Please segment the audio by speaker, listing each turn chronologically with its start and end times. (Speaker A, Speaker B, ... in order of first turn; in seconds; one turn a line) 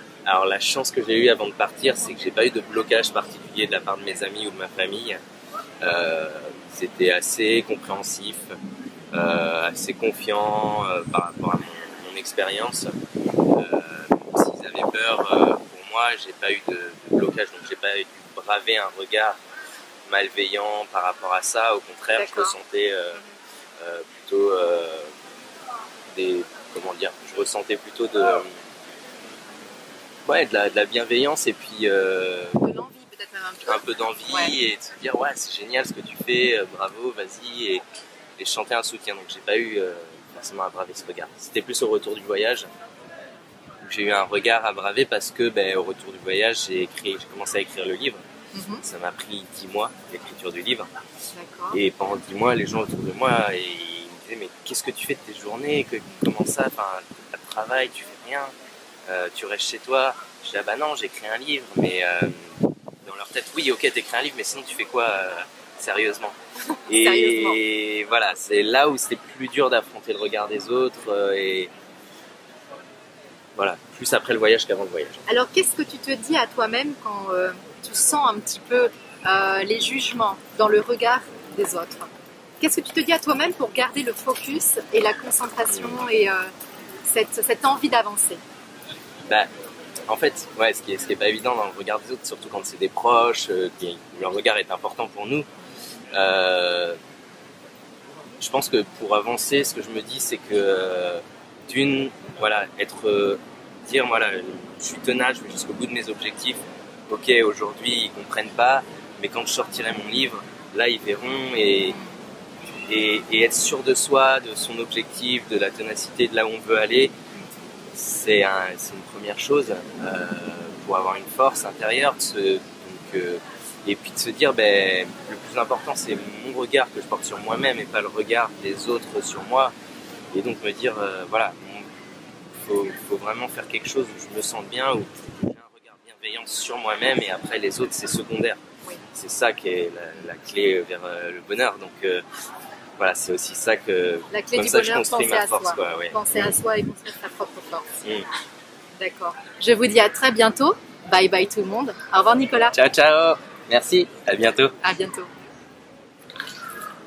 Speaker A: 0.3-5.2
Speaker A: 5.8-8.5
Speaker A: 9.1-12.9
Speaker A: 13.5-19.4
Speaker A: 20.1-23.2
Speaker B: 22.1-22.6
Speaker A: 23.8-25.1
Speaker A: 26.1-28.5
Speaker A: 30.3-32.6
Speaker B: 32.6-34.6
Speaker A: 33.7-37.8
Speaker A: 38.4-42.7
Speaker A: 43.8-48.2
Speaker B: 48.5-48.8
Speaker A: 48.8-50.9
Speaker B: 51.3-51.8
Speaker A: 51.7-58.5
Speaker A: 59.1-62.5
Speaker A: 63.0-66.4
Speaker B: 66.9-67.6
Speaker A: 66.9-71.7
Speaker A: 73.6-75.2
Speaker B: 75.3-86.5
Speaker A: 85.7-86.0
Speaker B: 87.1-88.4
Speaker A: 90.1-95.5
Speaker A: 96.1-97.0
Speaker A: 98.4-112.0
Speaker A: 112.9-117.1
Speaker A: 117.9-129.7
Speaker A: 130.3-131.9
Speaker A: 132.5-138.6
Speaker A: 139.1-142.2
Speaker A: 143.0-146.6
Speaker B: 144.3-148.0
Speaker B: 149.0-152.7
Speaker A: 152.7-154.8
Speaker B: 154.8-155.3